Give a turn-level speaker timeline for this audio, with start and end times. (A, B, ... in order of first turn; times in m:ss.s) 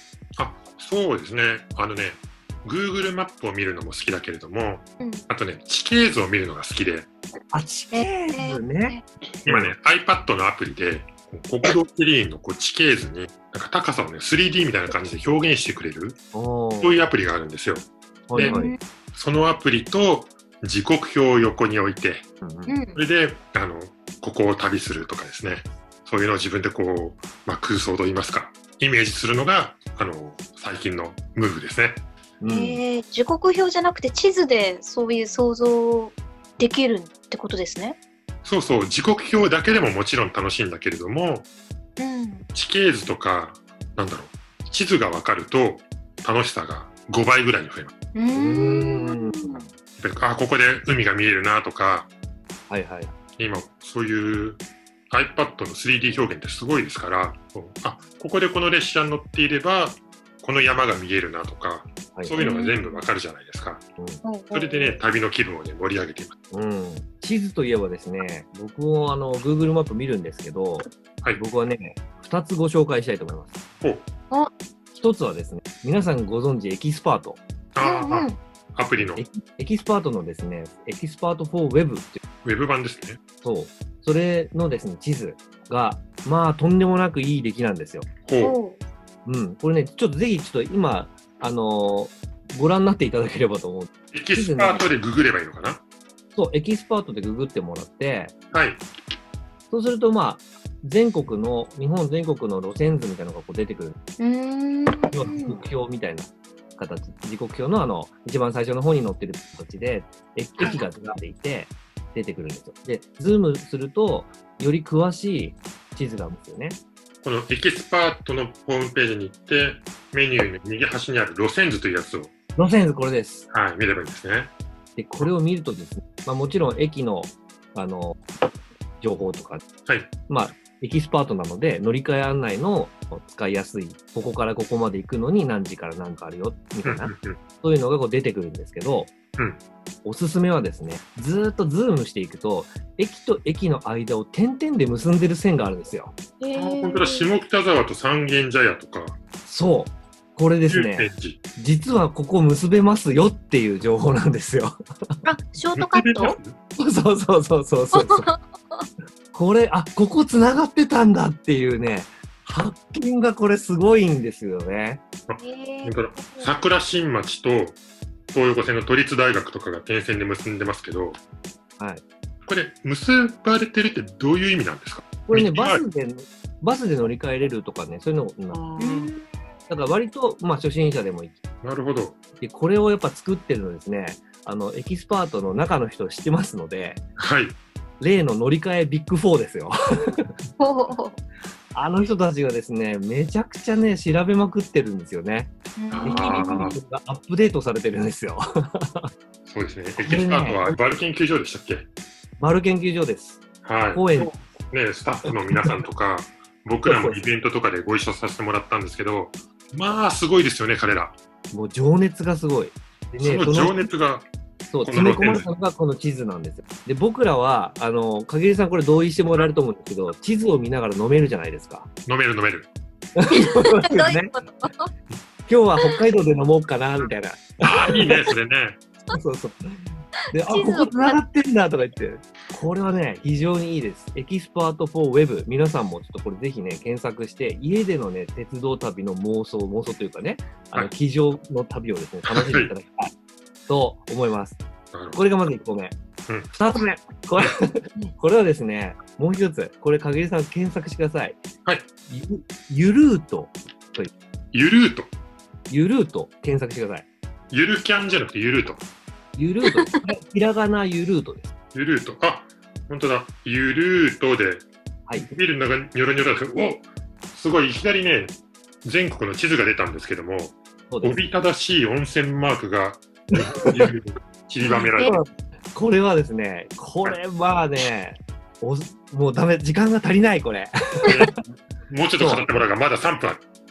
0:00.4-0:07.1 A
0:07.5-0:09.7 B
0:07.9-0:09.0 C
0:09.4-0:16.2 A
0:16.3-0:17.0 B
0:16.8-0:18.6 A
0:18.3-0:18.7 B
0:18.4-0:18.8 C
0:19.1-0:22.2 A
0:22.4-0:22.7 B
0:22.7-0:23.0 C
0:22.9-0:32.0 A
0:32.4-0:32.8 B
0:32.5-0:38.0 C
0:38.4-0:41.5 A
0:42.0-0:42.4 C
0:42.5-0:47.9 A
0:48.1-0:49.6 C
0:48.3-0:49.7 B
0:50.0-0:52.1 A
0:52.7-0:53.1 B
0:53.4-1:03.8 A
1:02.1-1:02.4 B
1:02.4-1:02.8 C
1:04.0-1:04.2 B
1:04.2-1:05.0 C
1:04.5-1:06.4 A
1:06.5-1:13.6 B
1:14.9-1:17.4 B
1:17.7-1:19.2 A
1:17.8-1:18.4 C
1:19.0-1:22.2 B
1:22.4-1:23.2 A
1:23.4-1:28.1 B
1:28.2-1:28.6 A
1:28.4-1:28.8 C
1:29.2-1:34.9 B
1:34.1-1:35.8 A
1:36.3-1:38.3 B
1:38.5-1:38.8 A
1:39.7-1:44.0 B
1:44.2-1:45.6 C
1:45.1-1:56.8 B
1:50.6-1:50.8 C
1:57.2-2:02.3 A
2:02.6-2:03.5 B
2:03.5-2:04.5 A
2:05.0-2:08.2 B
2:09.0-2:09.6 B
2:09.8-2:10.1 A
2:10.3-2:19.1 B
2:16.8-2:17.4 A
2:20.0-2:26.1 B
2:26.4-2:27.3 C
2:26.5-2:29.2 A
2:29.4-2:34.8 B
2:30.7-2:31.4 A
2:35.2-2:36.4 C
2:35.8-2:36.6 A
2:36.8-2:38.3 B
2:37.9-2:38.8 C
2:39.3-2:45.0 B
2:45.3-2:47.8 A
2:45.4-2:46.5 C
2:48.3-2:51.2 A
2:51.8-2:52.0 B
2:52.4-2:55.8 A
2:55.2-2:58.6 B
2:58.5-2:59.1 A
2:58.8-2:59.2 C
2:59.7-3:01.4 B
3:01.6-3:02.2 A
3:02.4-3:07.0 B
3:07.2-3:07.6 A
3:08.0-3:10.3 B
3:10.6-3:11.2 C
3:11.7-3:19.1 B
3:15.8-3:16.5 C
3:15.9-3:16.8 A
3:19.4-3:21.9 A
3:20.0-3:20.8 B
3:22.4-3:24.4 B
3:23.6-3:31.2 A
3:25.2-3:25.7 B
3:26.8-3:27.2 B
3:31.5-3:33.8 B
3:33.2-3:34.3 A
3:34.7-3:41.9 B
3:34.8-3:35.5 A
3:42.0-3:42.7 A
3:43.2-3:44.3 B
3:43.4-3:44.9 C
3:45.5-3:48.3 B
3:47.6-3:48.8 A
3:49.1-3:49.8 B
3:50.3-4:03.1 B
3:50.5-3:51.2 C
4:02.3-4:02.7 A
4:03.7-4:04.6 B
4:04.9-4:05.2 A
4:05.1-4:05.9 B
4:06.5-4:11.4 B
4:12.1-4:14.1 B
4:14.5-4:15.1 A
4:15.7-4:17.1 B
4:17.5-4:18.8 A
4:19.4-4:21.5 B
4:21.7-4:35.2 A
4:30.9-4:31.2 B
4:34.9-4:35.2 C
4:34.9-4:40.7 B
4:41.0-4:43.4 A
4:42.2-4:42.5 B